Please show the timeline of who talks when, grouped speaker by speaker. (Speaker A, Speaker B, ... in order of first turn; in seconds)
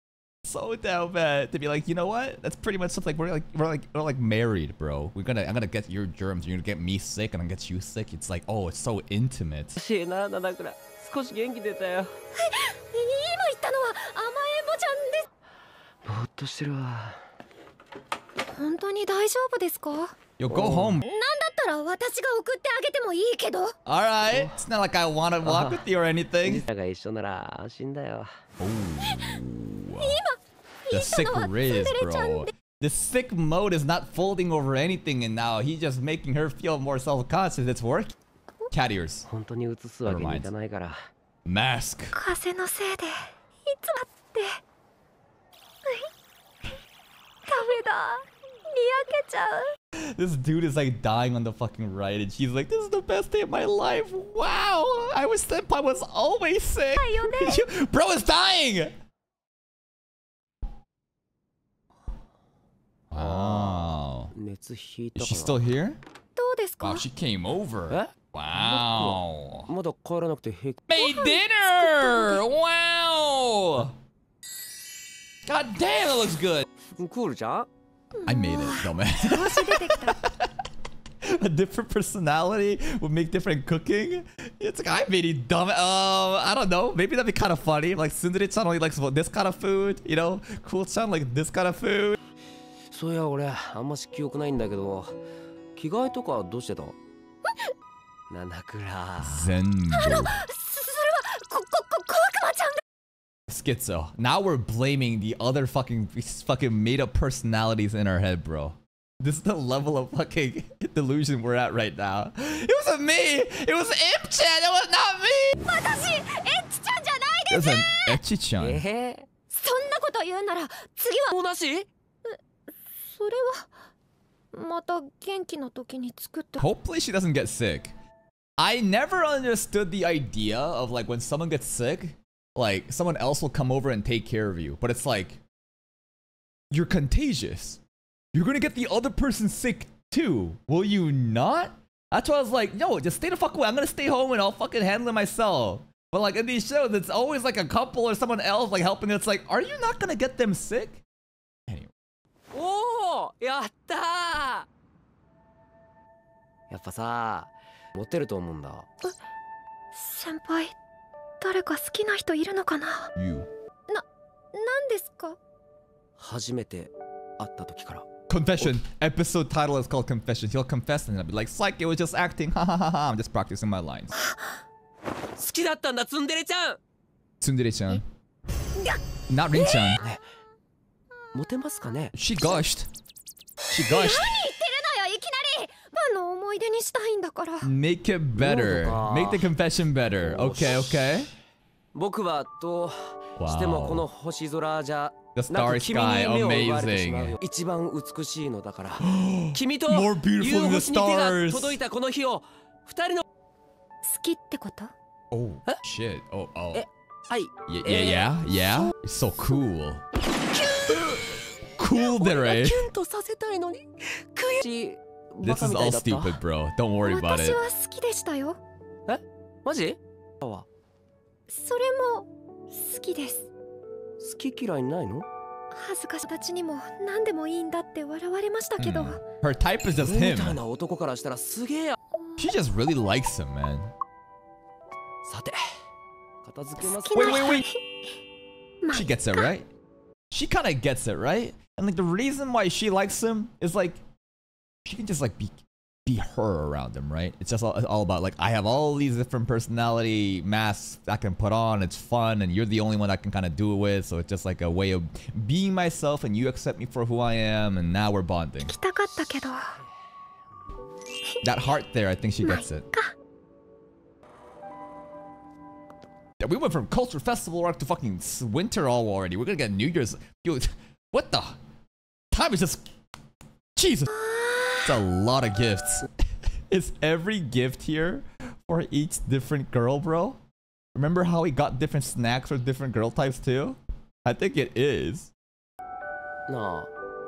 Speaker A: 0.4-9.8, 20.4-21.1, 23.9-26.6, 28.6-30.1, 30.9-38.1, 38.7-39.3, 40.0-40.5, 41.5-42.2, 50.0-58.9, 63.1-64.3, 65.2-66.0, 66.8-69.7, 70.9-73.9, 75.5-76.7, 78.2-80.5, 81.2-92.2, 99.2-100.4, 103.5-115.7, 117.5-118.8, 126.6-127.9, 128.6-135.4, 136.7-137.8, 138.3-151.0, 163.1-163.5, 168.3-174.2, 177.4-178.0, 179.3-180.0, 182.1-182.9, 183.7-184.3, 187.6-191.3, 193.4-194.1, 195.3-197.3, 199.0-201.8, 205.3-206.8, 207.7-210.0, 211.8-212.9, 215.4-217.6, 228.8-230.6, 232.4-233.9, 237.1-237.7, 238.9-239.7, 240.3-244.0, 244.8-258.7, 261.4-262.9, 266.4-271.6, 272.3-272.9, 273.8-274.1, 274.8-276.1, 276.7-280.4, 280.9-285.3
Speaker B: 9.8-12.1, 16.0-17.2, 20.5-21.0, 24.3-24.6, 25.4-25.8, 26.4-28.3, 39.3-41.0, 63.1-65.5, 67.9-70.9, 76.8-77.7, 92.9-95.2, 95.8-97.0, 98.3-99.5, 118.6-119.3, 121.3-121.9, 152.5-154.7, 156.7-158.9, 166.2-168.1, 175.3-176.8, 181.3-182.2, 188.3-189.5, 190.2-190.9, 191.9-203.2, 206.7-208.3, 210.4-216.4, 219.1-220.7, 224.2-225.3, 230.0-232.0, 235.2-235.8, 236.4-237.5, 286.5-286.9
Speaker C: 12.3-15.3, 18.5-20.1, 21.0-23.7, 29.0-29.4, 30.0-32.5, 42.1-44.6, 45.8-46.1, 47.5-49.7, 57.0-57.7, 66.3-67.0, 70.9-72.4, 78.2-80.2, 99.9-102.8, 115.6-118.2, 119.5-121.3, 123.0-123.7, 124.5-126.6, 159.9-160.7, 161.4-163.1, 163.9-165.4, 174.2-174.5, 179.5-180.0, 183.9-187.7, 204.0-204.9, 217.0-218.6, 221.5-223.5, 225.7-229.2, 236.8-238.1, 238.8-239.5, 258.6-259.8, 261.3-261.6, 262.4-263.1, 274.1-274.9